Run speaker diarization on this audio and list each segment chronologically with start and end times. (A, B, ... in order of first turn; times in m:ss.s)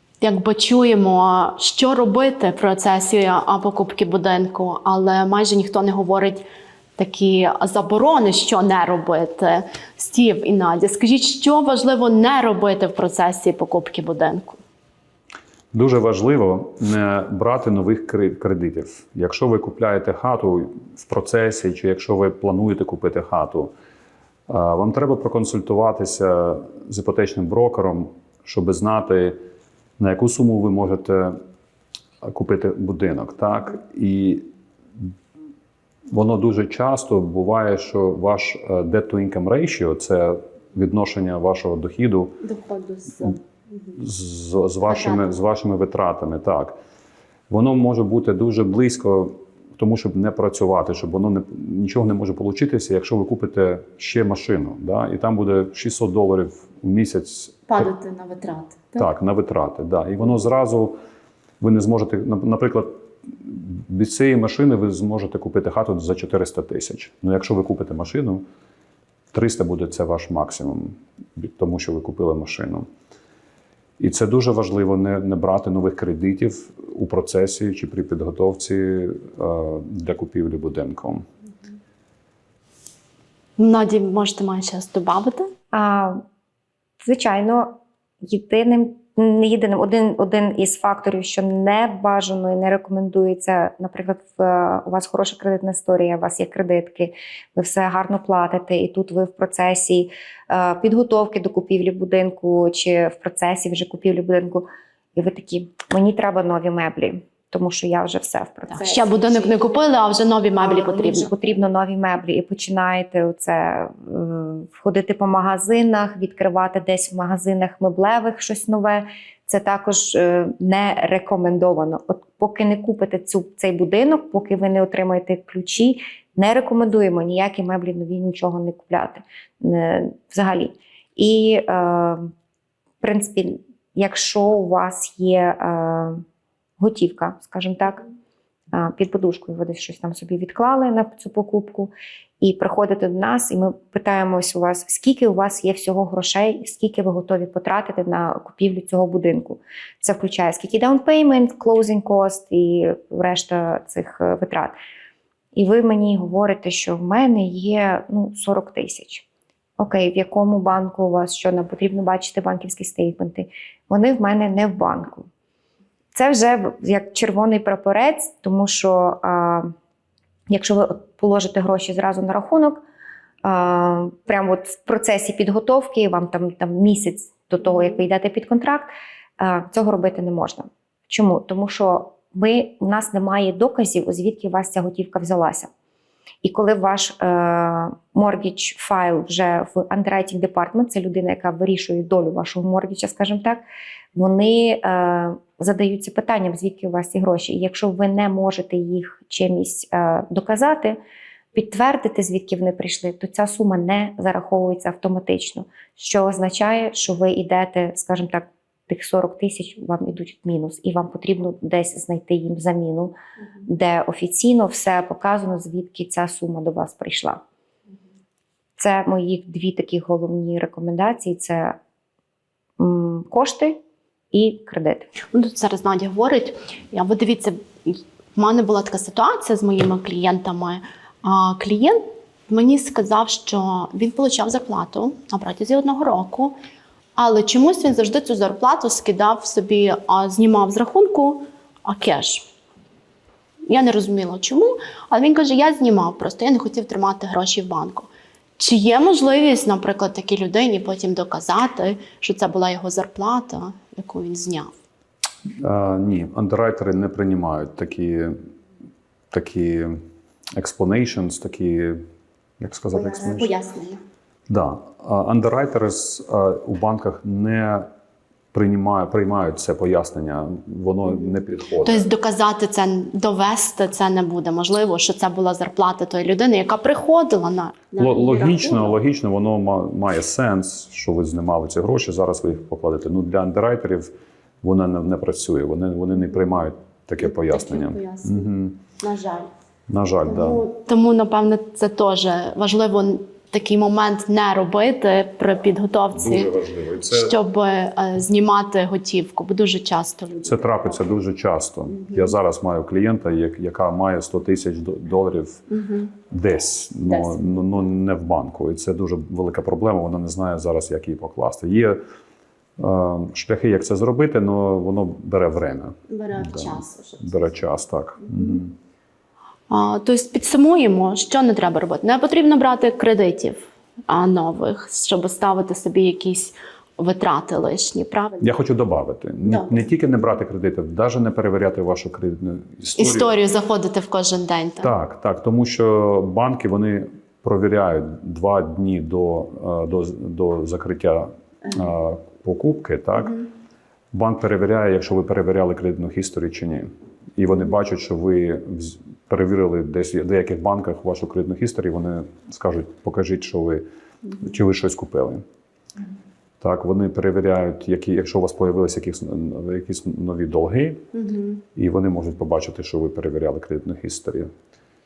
0:00.2-0:06.4 A
0:07.0-0:14.6 A
0:15.7-0:23.7 B
0:24.5-0:29.4 B
0:30.0-0:31.4 B
0:32.2-0:35.1 B
0:36.1-0:42.4 B
0:42.4-0:44.0 A
0:44.0-0:46.8 B
0:44.9-0:45.3 A
0:47.5-0:57.9 B
0:57.7-0:59.1 A
0:59.0-1:01.0 B
1:01.6-1:08.4 B
1:09.3-1:12.9 B
1:14.0-1:21.2 B
1:23.6-1:25.5 A
1:25.7-1:26.2 C
1:27.0-1:49.3 C
1:48.7-1:51.3 A
1:50.6-2:12.3 C
2:13.0-2:16.2 C
2:16.8-2:18.0 C
2:18.7-2:34.8 C
2:35.6-2:39.3 C
2:39.8-2:45.3 C
2:46.1-2:49.7 C
2:50.5-2:52.8 C
2:53.4-3:05.7 C
3:06.4-3:21.0 C
3:21.5-3:33.1 C
3:33.7-3:37.4 C
3:38.8-3:41.8 C
3:42.8-3:43.8 C
3:44.3-3:45.1 C
3:45.3-3:56.6 A
3:57.2-4:02.5 A
4:03.7-4:14.7 A
4:15.6-4:18.4 B
4:19.3-4:20.0 B
4:20.5-4:22.0 B
4:22.6-4:23.5 B
4:23.0-4:23.4 C
4:23.2-4:24.0 A
4:24.5-4:27.9 B
4:28.5-4:32.1 B
4:31.8-4:39.0 A
4:38.0-4:44.1 B
4:44.6-4:48.8 B
4:47.2-4:49.5 A
4:49.9-4:50.6 B
4:50.3-4:56.5 A
4:56.1-4:57.4 B
4:57.1-5:01.0 A
5:00.4-5:05.6 B
5:02.0-5:02.3 A
5:05.7-5:06.1 A
5:06.3-5:12.0 B
5:07.1-5:07.7 A
5:12.8-5:18.8 B
5:16.1-5:17.5 A
5:19.7-5:28.5 A
5:28.4-5:33.3 B
5:29.4-5:29.8 A
5:33.0-5:34.9 A
5:34.8-5:43.5 B
5:44.1-5:53.8 B
5:54.4-5:55.4 B
5:56.6-6:01.0 B
6:01.1-6:01.6 A
6:01.8-6:04.5 B